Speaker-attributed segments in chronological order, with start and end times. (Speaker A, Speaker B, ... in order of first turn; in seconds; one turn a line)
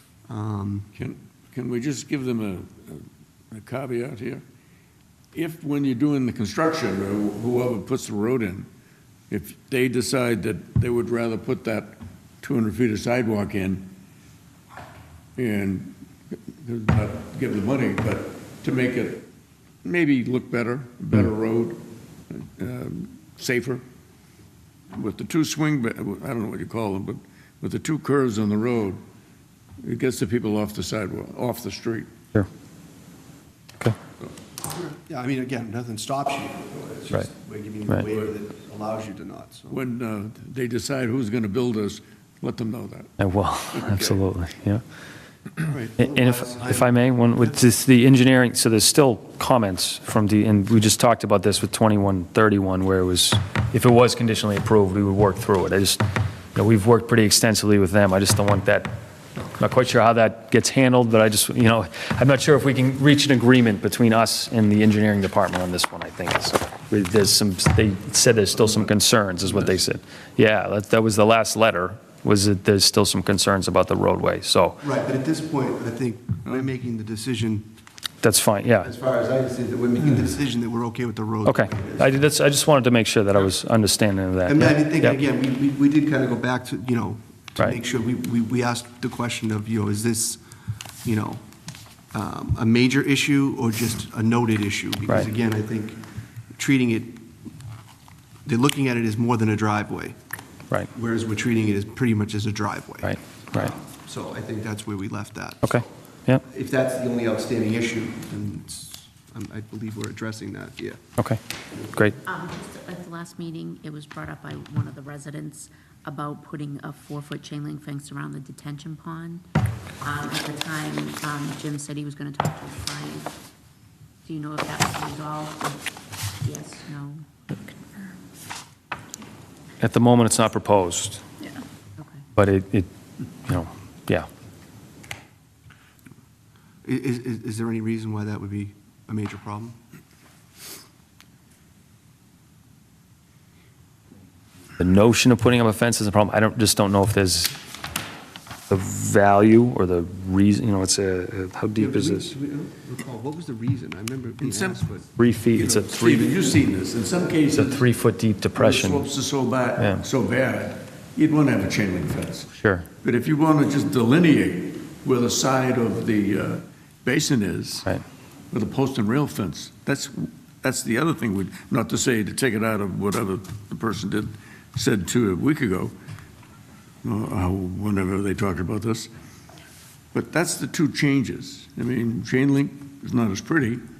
Speaker A: 0.3-0.9
Speaker B: 0.9-4.4
Speaker B: 5.3-8.7
Speaker B: 9.3-13.9
Speaker B: 15.3-19.3
Speaker B: 19.8-23.8
Speaker B: 24.9-29.0
Speaker B: 29.8-32.1
Speaker A: 34.6-39.8
Speaker B: 39.7-43.2
Speaker C: 43.2-44.8
Speaker B: 43.7-44.2
Speaker A: 45.6-47.6
Speaker C: 46.0-56.0
Speaker C: 56.5-58.9
Speaker C: 59.6-74.8
Speaker A: 74.8-77.7
Speaker C: 78.2-78.9
Speaker A: 78.8-82.2
Speaker C: 81.4-85.2
Speaker A: 84.5-90.4
Speaker A: 91.0-91.4
Speaker A: 92.1-96.0
Speaker A: 96.5-97.3
Speaker A: 98.4-100.2
Speaker A: 100.9-105.8
Speaker C: 103.0-103.7
Speaker C: 105.6-106.4
Speaker A: 106.4-111.0
Speaker D: 112.2-119.4
Speaker D: 120.0-123.3
Speaker D: 124.2-125.8
Speaker D: 126.4-127.2
Speaker C: 129.8-131.2
Speaker D: 132.0-132.2
Speaker C: 132.3-132.9
Speaker C: 133.4-134.3
Speaker A: 136.8-139.8
Speaker C: 144.8-147.6
Speaker C: 148.7-152.3
Speaker A: 151.8-155.1
Speaker B: 154.4-154.8
Speaker C: 155.2-156.5
Speaker B: 155.5-157.8
Speaker C: 157.5-159.0
Speaker B: 158.5-167.9
Speaker C: 159.8-160.0
Speaker C: 162.6-162.8
Speaker B: 168.5-175.9
Speaker B: 177.0-179.1
Speaker B: 180.1-183.8